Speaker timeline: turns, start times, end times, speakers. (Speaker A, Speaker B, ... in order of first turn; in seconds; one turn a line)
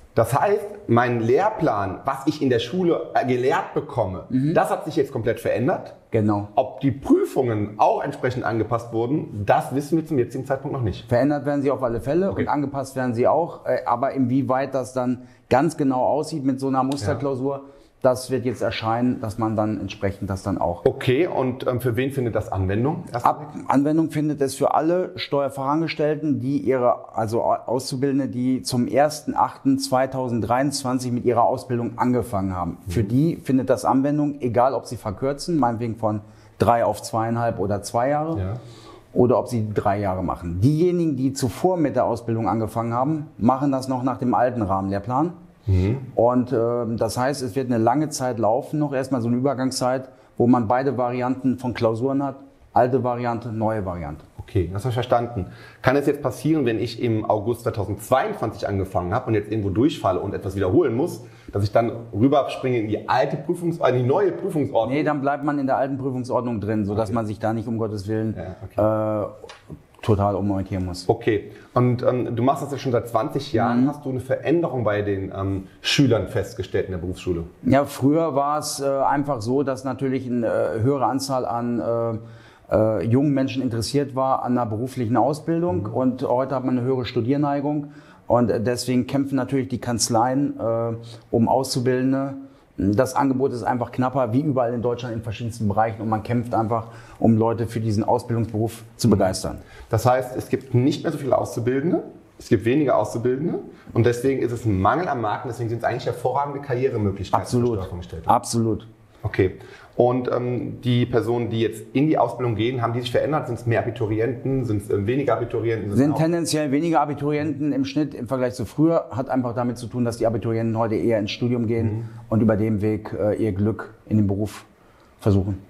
Speaker A: 0.1-6.0
Speaker B: 4.3-4.6
Speaker B: 6.1-6.5
Speaker A: 6.5-11.1
Speaker B: 11.1-20.8
Speaker A: 20.8-23.5
Speaker B: 23.2-38.4
Speaker B: 39.1-45.4
Speaker A: 45.7-46.0
Speaker B: 46.1-54.2
Speaker A: 54.4-65.1
Speaker B: 64.8-69.3
Speaker A: 68.3-68.8
Speaker B: 70.0-71.1
Speaker A: 71.1-77.5
Speaker B: 73.5-73.9
Speaker B: 77.6-99.6
Speaker A: 99.9-108.3
Speaker B: 107.3-108.9
Speaker A: 109.2-116.3
Speaker B: 115.9-124.7
Speaker B: 125.2-125.6